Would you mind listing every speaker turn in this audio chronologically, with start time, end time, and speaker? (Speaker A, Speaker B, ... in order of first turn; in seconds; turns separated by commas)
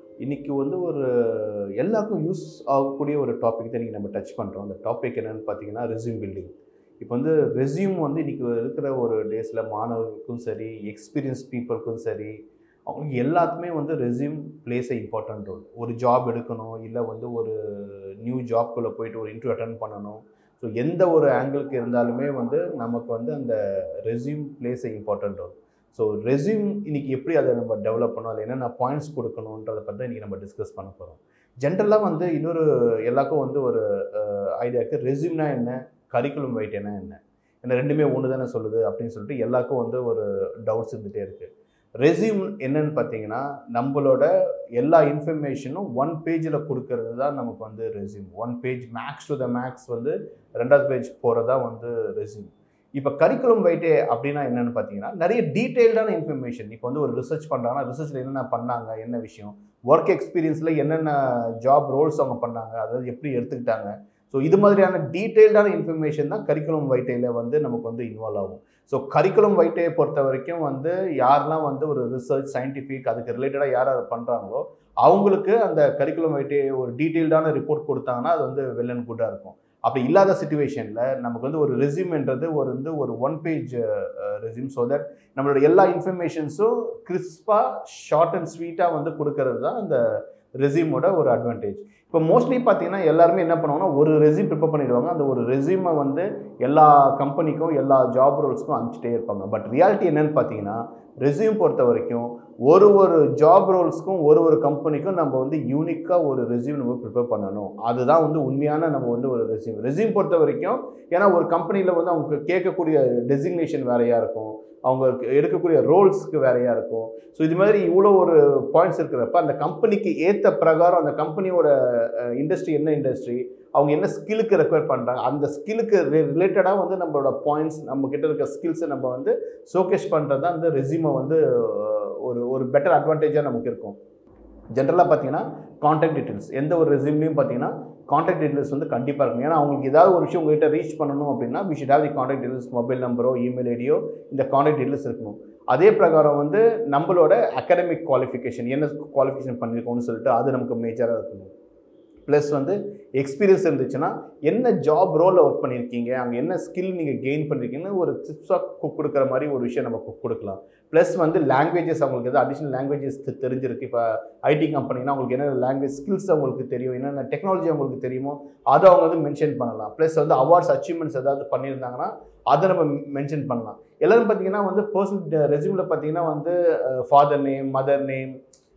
Speaker A: 0.2-12.4, Speaker A: 12.9-41.5, Speaker A: 42.0-134.0, Speaker A: 134.7-151.5, Speaker A: 152.3-178.4